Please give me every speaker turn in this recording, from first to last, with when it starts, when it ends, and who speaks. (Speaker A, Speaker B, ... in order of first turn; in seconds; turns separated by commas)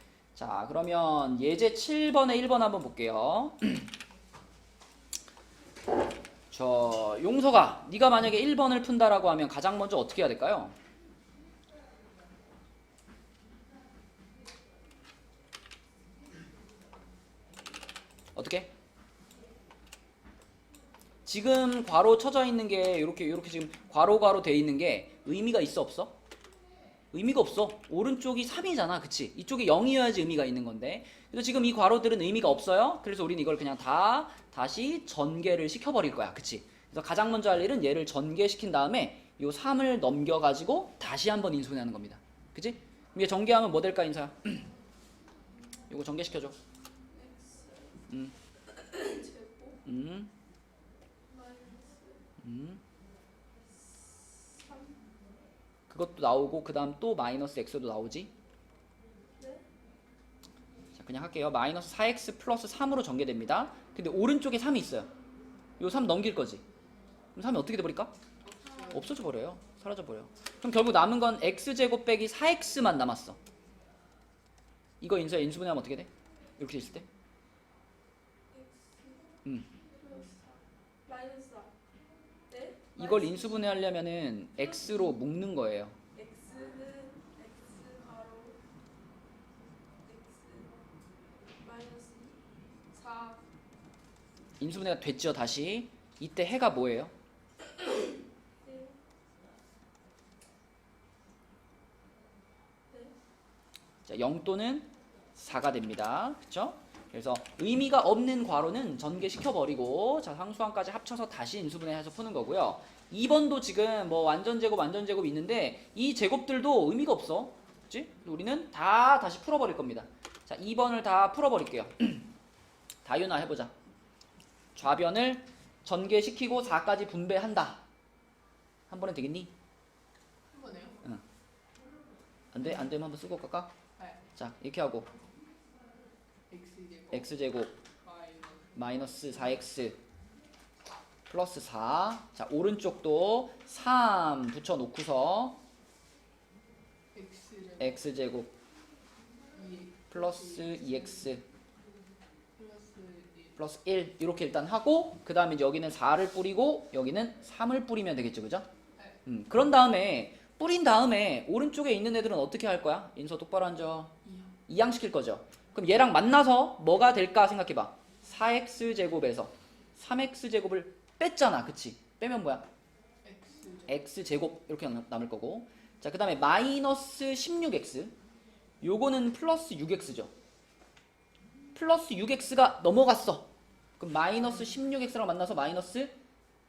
Speaker A: 0.3-3.9, Speaker A: 6.5-10.7, Speaker A: 18.3-18.7, Speaker A: 21.2-26.1, Speaker A: 27.1-44.7, Speaker A: 45.9-46.5, Speaker B: 47.1-48.1, Speaker B: 48.6-49.8, Speaker A: 49.8-50.3, Speaker B: 51.3-52.2, Speaker A: 52.4-52.8, Speaker B: 53.8-55.0, Speaker A: 55.9-58.3, Speaker B: 59.4-59.6, Speaker A: 61.0-65.1, Speaker A: 65.8-66.6, Speaker A: 67.3-68.1, Speaker C: 68.4-69.2, Speaker A: 68.9-73.4, Speaker A: 75.0-77.1, Speaker B: 78.5-79.3, Speaker B: 79.9-81.7, Speaker B: 82.5-83.8, Speaker A: 83.0-86.0, Speaker B: 84.6-85.1, Speaker B: 86.1-88.6, Speaker B: 90.0-90.7, Speaker B: 91.6-92.4, Speaker B: 92.9-93.4, Speaker A: 94.6-97.1, Speaker B: 97.8-98.0, Speaker B: 98.6-99.0, Speaker B: 102.9-103.1, Speaker A: 104.1-122.3, Speaker A: 123.0-123.7, Speaker A: 124.7-127.8, Speaker A: 128.9-129.5, Speaker C: 130.5-131.0, Speaker A: 132.5-133.7, Speaker C: 132.6-132.9, Speaker C: 134.0-134.2, Speaker A: 134.3-135.1, Speaker C: 136.5-137.4, Speaker A: 137.1-137.7, Speaker C: 138.0-139.5, Speaker A: 138.7-140.0, Speaker A: 141.3-145.6, Speaker C: 147.1-148.1, Speaker A: 147.8-148.5, Speaker C: 149.5-151.3, Speaker A: 150.1-151.4, Speaker C: 152.6-153.6, Speaker A: 153.6-158.7, Speaker C: 158.9-159.2, Speaker A: 159.2-164.1, Speaker C: 164.2-164.6, Speaker A: 164.7-172.7, Speaker C: 173.2-174.0, Speaker A: 173.9-178.1, Speaker A: 178.8-180.3, Speaker A: 181.7-186.1, Speaker C: 184.3-184.8